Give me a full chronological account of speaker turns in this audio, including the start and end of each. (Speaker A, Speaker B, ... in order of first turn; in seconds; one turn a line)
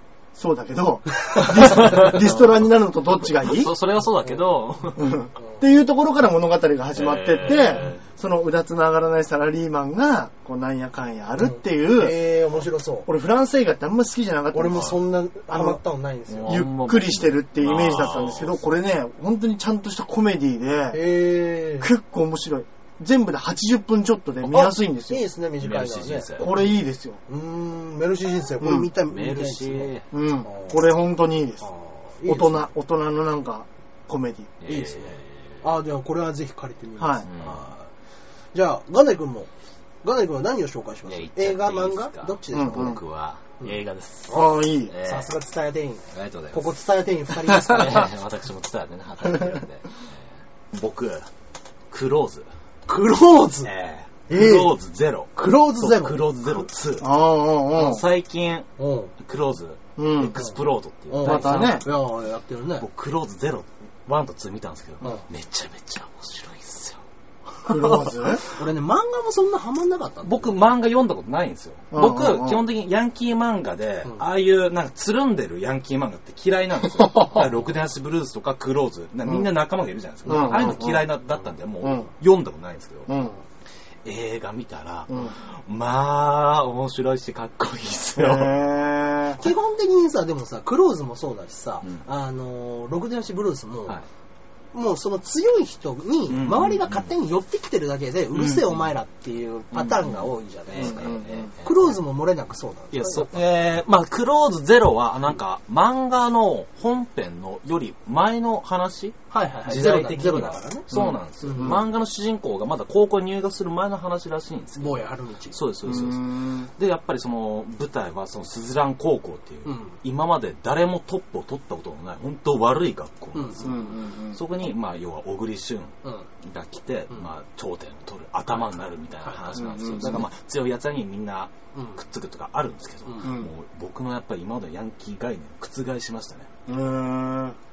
Speaker A: 0.3-3.7
Speaker B: 1.8-2.4
Speaker B: 3.4-5.2
Speaker A: 5.0-12.2
Speaker B: 7.0-8.0
Speaker C: 11.4-13.1
Speaker A: 13.1-15.8
Speaker C: 14.5-16.7
Speaker B: 16.3-18.6
Speaker A: 16.5-21.0
Speaker C: 20.9-21.9
Speaker A: 21.8-25.2
Speaker C: 24.4-26.3
Speaker B: 25.6-26.6
Speaker A: 26.4-27.2
Speaker C: 27.3-29.9
Speaker A: 28.6-28.9
Speaker B: 29.0-30.1
Speaker A: 30.1-31.7
Speaker C: 30.4-30.8
Speaker C: 31.6-32.7
Speaker A: 32.3-34.5
Speaker B: 34.6-35.6
Speaker C: 34.7-37.9
Speaker A: 37.0-37.3
Speaker B: 37.3-37.6
Speaker C: 38.5-39.5
Speaker C: 40.0-43.0
Speaker B: 41.1-45.3
Speaker A: 42.5-43.0
Speaker A: 44.3-44.9
Speaker C: 45.0-48.1
Speaker B: 46.1-46.7
Speaker B: 47.5-51.3
Speaker B: 51.9-52.5
Speaker C: 52.9-53.7
Speaker B: 53.6-57.1
Speaker C: 54.3-54.7
Speaker C: 55.4-56.3
Speaker A: 57.0-58.0
Speaker B: 57.7-61.9
Speaker C: 58.8-59.1
Speaker A: 60.0-60.4
Speaker C: 61.1-62.9
Speaker A: 61.2-61.9
Speaker B: 62.8-67.0
Speaker A: 67.7-68.4
Speaker C: 68.4-70.6
Speaker B: 70.2-83.1
Speaker A: 71.9-72.6
Speaker A: 80.3-81.1
Speaker C: 80.3-80.7
Speaker A: 81.8-82.1
Speaker A: 83.1-83.4
Speaker B: 84.0-88.6
Speaker A: 88.2-89.4
Speaker C: 89.4-94.0
Speaker C: 94.7-103.3
Speaker B: 96.3-97.1
Speaker B: 98.3-98.9
Speaker B: 99.7-101.9
Speaker A: 100.8-101.5
Speaker B: 102.9-136.5
Speaker C: 109.3-111.8
Speaker A: 110.9-111.8
Speaker C: 114.8-115.6
Speaker A: 115.9-116.7
Speaker C: 119.7-120.0
Speaker C: 123.3-123.9
Speaker A: 123.6-124.4
Speaker C: 129.3-129.5
Speaker A: 129.6-130.3
Speaker C: 133.1-133.4
Speaker A: 133.2-133.5
Speaker A: 136.7-137.6